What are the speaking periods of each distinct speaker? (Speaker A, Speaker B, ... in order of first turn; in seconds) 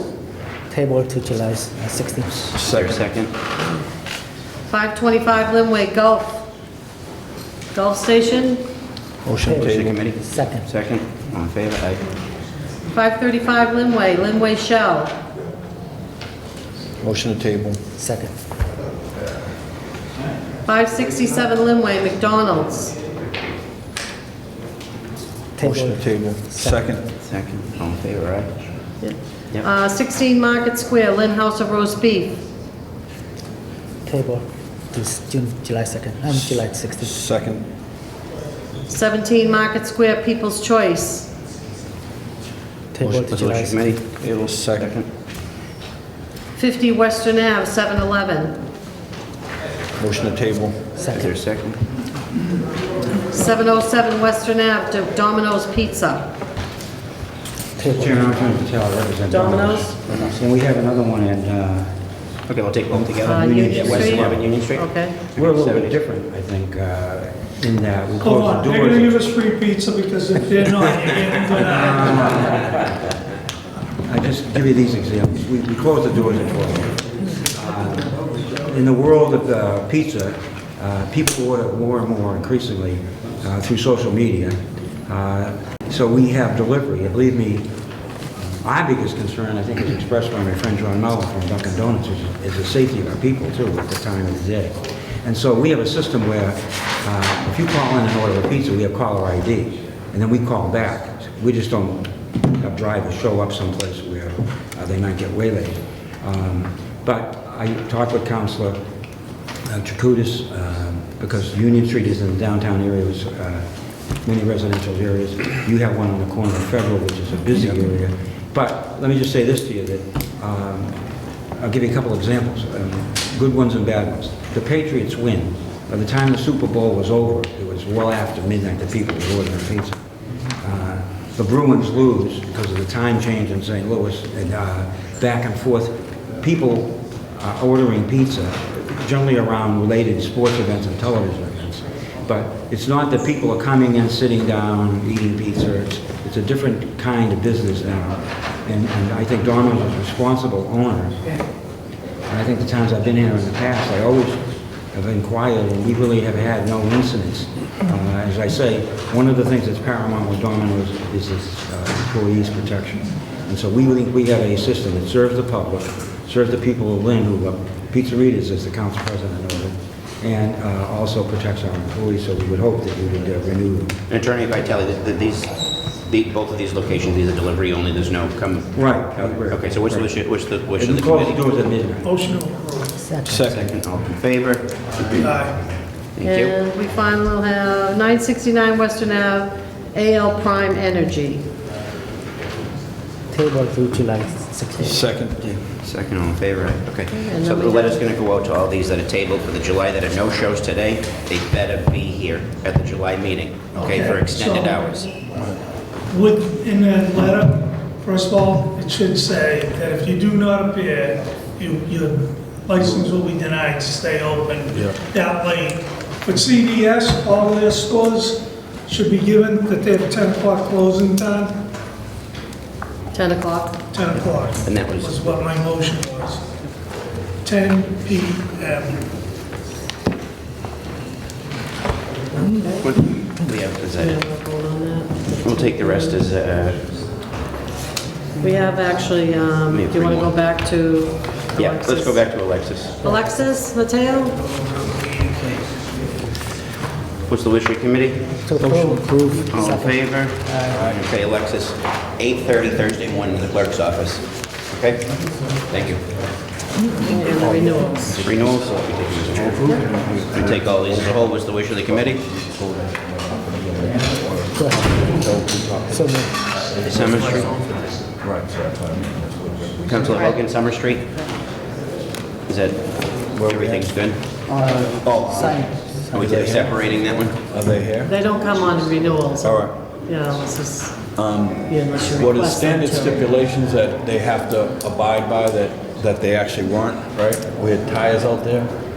Speaker A: 0.7-2.3, 9.5-10.7, 17.9-18.4, 25.6-26.9, 34.0-37.1, 42.9-43.9, 51.0-51.3, 183.0-183.4, 193.3-195.0, 248.5-250.8, 264.5-265.2, 265.9-266.3, 274.5-276.5
Speaker B: 2.2-3.3, 9.5-12.0, 27.2-28.5, 43.0-45.1, 51.1-51.8, 62.5-65.9, 174.1-178.8, 179.5-181.5, 183.3-185.3, 186.2-186.6, 195.8-205.1, 224.6-225.4, 232.8-234.2, 235.4-236.9, 239.7-240.3, 241.6-243.0, 247.3-248.2, 249.5-255.0, 255.7-256.0, 258.1-262.2, 266.8-267.6, 269.9-271.1, 272.5-274.2, 276.1-277.4
Speaker C: 2.5-3.0, 9.2-10.0, 17.0-17.8, 25.6-27.0, 36.3-37.7, 43.1-43.4, 44.3-44.9, 50.0-50.9, 183.2-183.7, 185.0-185.4, 194.8-195.6, 214.7-215.0, 257.5-258.6, 259.2-261.1, 262.3-266.1, 266.8-270.0, 273.3-273.9, 275.0-275.6, 276.1-279.7, 281.1-288.7
Speaker D: 4.7-6.5, 7.7-8.6, 12.9-15.1, 20.7-22.9, 29.0-32.4, 38.9-41.3, 46.5-48.6, 53.3-56.3, 59.3-60.0, 63.2-65.2, 186.2-191.4, 197.1-198.0, 223.1-223.8, 232.4-232.8, 234.0-236.2, 238.4-242.2, 243.0-244.4, 257.0-258.2, 278.0-281.0, 281.7-283.3
Speaker E: 57.8-62.0, 62.9-64.5, 65.4-69.2, 71.6-72.8, 74.0-87.7, 88.4-108.8, 109.7-113.7, 114.2-121.0, 121.6-130.0, 130.6-151.2, 152.3-174.0, 178.7-180.1, 180.8-182.2
Speaker F: 68.4-71.9, 182.1-182.9, 203.8-204.7, 206.2-207.5, 208.0-215.8, 216.4-218.4, 219.0-221.5, 224.0-224.4, 225.3-226.4, 227.6-228.9